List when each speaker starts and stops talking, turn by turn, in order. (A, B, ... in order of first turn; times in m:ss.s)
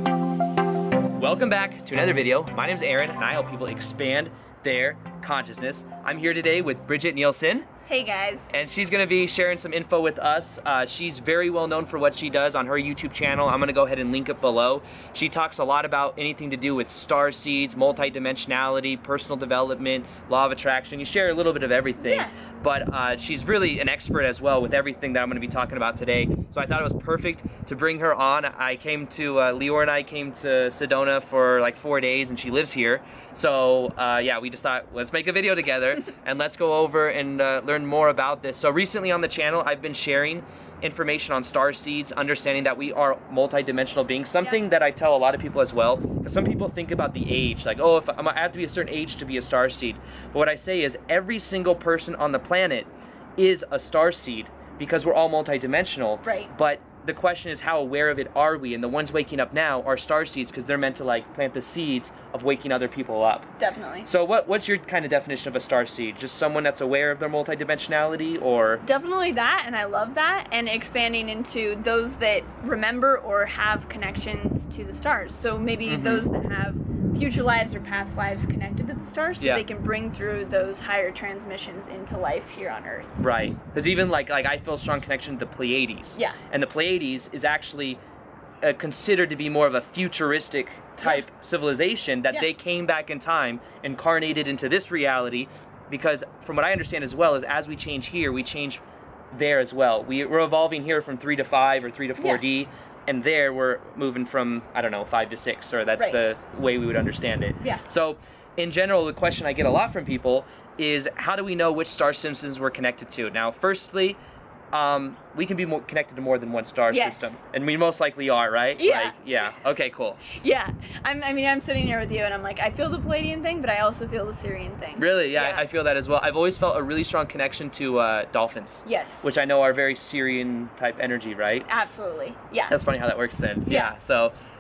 0:01.1-0:07.7 A
0:07.9-0:08.5 B
0:08.5-1:03.5 A
0:22.0-0:22.3 B
0:56.2-0:56.5 B
1:03.6-1:04.1 B
1:04.0-1:08.8 A
1:08.8-1:23.2 B
1:15.9-1:16.3 A
1:23.2-1:28.0 A
1:28.6-1:54.2 A
1:42.2-1:42.4 B
1:54.7-2:00.2 A
1:56.9-1:57.4 B
1:58.8-1:59.5 B
2:00.3-2:05.6 B
2:05.0-2:11.7 A
2:08.8-2:09.3 B
2:11.7-2:12.8 B
2:12.7-2:14.3 A
2:13.6-2:14.0 B